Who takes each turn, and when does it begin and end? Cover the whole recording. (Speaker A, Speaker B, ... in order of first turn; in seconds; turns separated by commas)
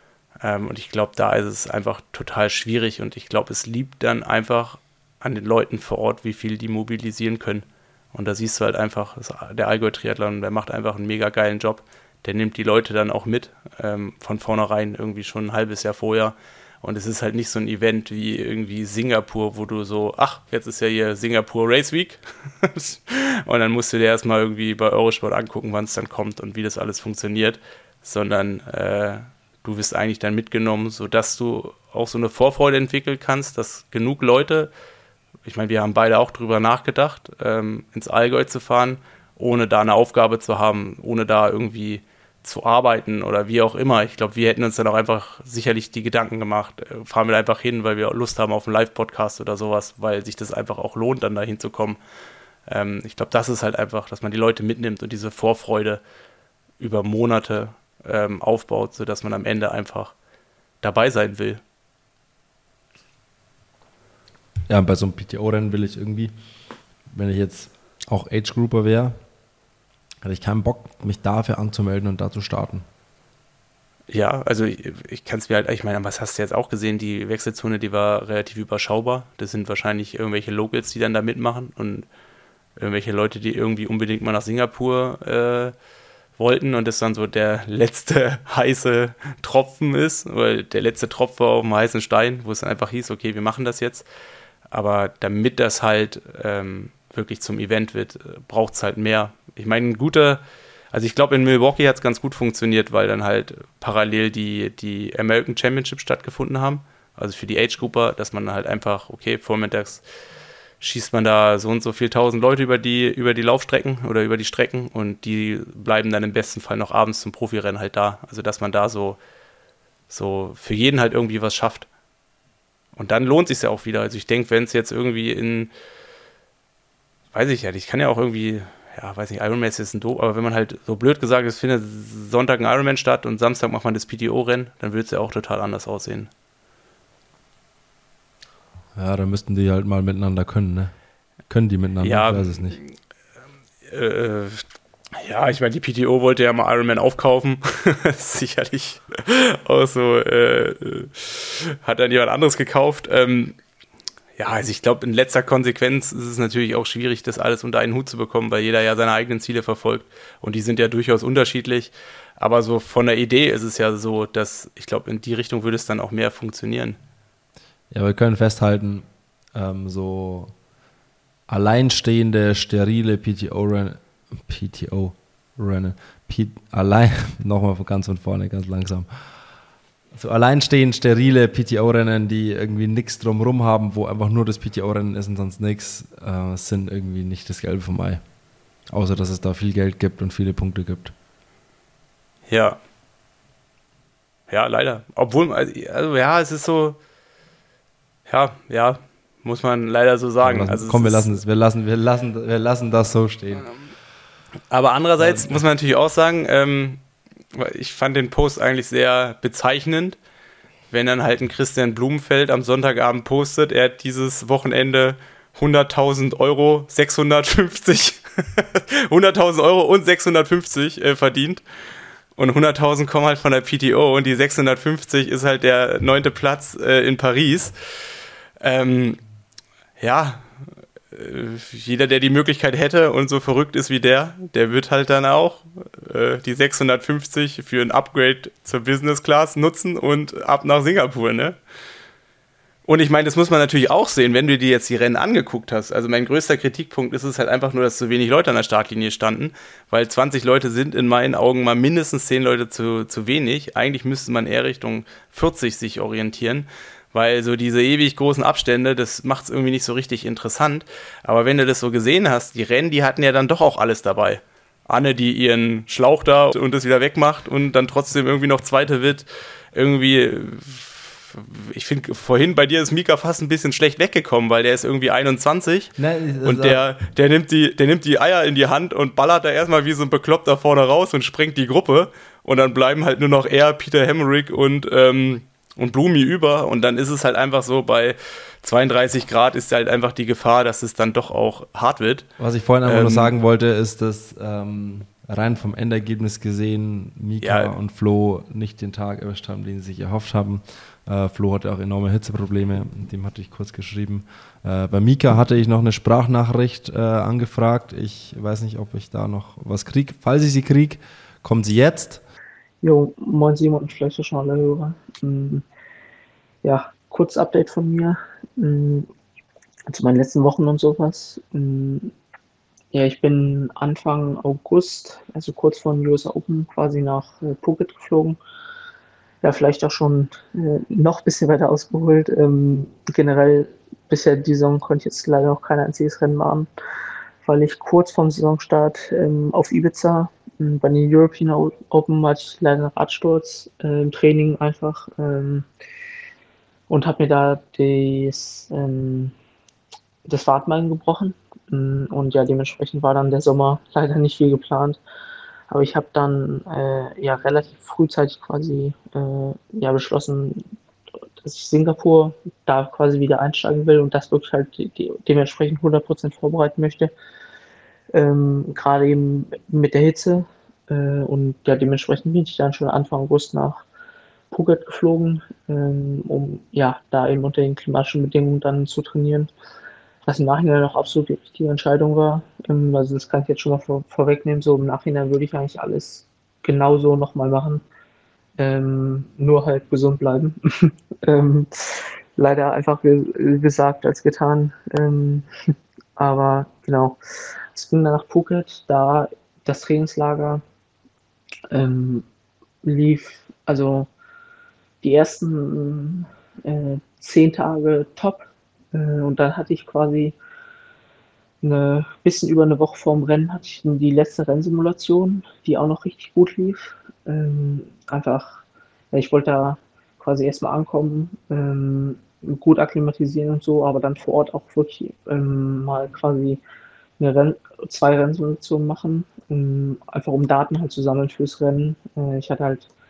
Speaker A: 0.4-34.7, Speaker A: 35.4-52.0, Speaker A: 52.7-56.0, Speaker A: 56.8-60.1, Speaker A: 60.8-61.6, Speaker B: 64.7-66.3, Speaker B: 67.1-69.2, Speaker B: 70.2-72.8, Speaker A: 74.1-82.0, Speaker A: 82.8-85.7, Speaker A: 86.4-94.0, Speaker A: 94.7-100.4, Speaker A: 100.9-110.0, Speaker A: 110.8-119.2, Speaker A: 120.1-121.9, Speaker A: 122.9-125.7, Speaker A: 127.3-136.3, Speaker B: 138.9-140.9, Speaker B: 141.5-142.8, Speaker A: 142.0-142.9, Speaker A: 143.9-144.6, Speaker A: 145.2-153.6, Speaker A: 154.4-167.0, Speaker B: 167.9-170.5, Speaker B: 171.5-179.1, Speaker B: 180.1-188.2, Speaker B: 188.9-191.1, Speaker A: 192.5-192.8, Speaker A: 194.5-197.0, Speaker A: 198.2-201.3, Speaker B: 200.4-203.7, Speaker A: 204.7-207.0, Speaker B: 205.2-205.6, Speaker A: 207.5-210.2, Speaker A: 210.9-221.6, Speaker A: 222.4-227.7, Speaker A: 228.6-229.2, Speaker A: 230.0-230.5, Speaker A: 231.1-241.6, Speaker A: 242.8-275.9, Speaker B: 276.0-276.8, Speaker A: 276.4-292.2, Speaker B: 292.4-312.2, Speaker A: 292.9-293.3, Speaker A: 297.4-297.7, Speaker C: 312.8-315.6, Speaker C: 316.6-319.1, Speaker C: 319.9-322.1, Speaker C: 322.9-328.4, Speaker C: 329.4-336.7, Speaker C: 337.4-345.7, Speaker C: 346.9-349.3, Speaker C: 350.2-355.0, Speaker C: 355.7-360.6, Speaker C: 361.4-367.1, Speaker C: 368.1-373.8, Speaker C: 374.5-379.5, Speaker C: 380.2-387.8, Speaker C: 388.6-395.5, Speaker C: 396.2-397.2, Speaker C: 397.7-400.6, Speaker C: 401.7-402.2, Speaker C: 402.8-404.1, Speaker C: 405.0-410.4, Speaker C: 411.6-418.6, Speaker C: 419.1-426.6, Speaker C: 427.2-432.9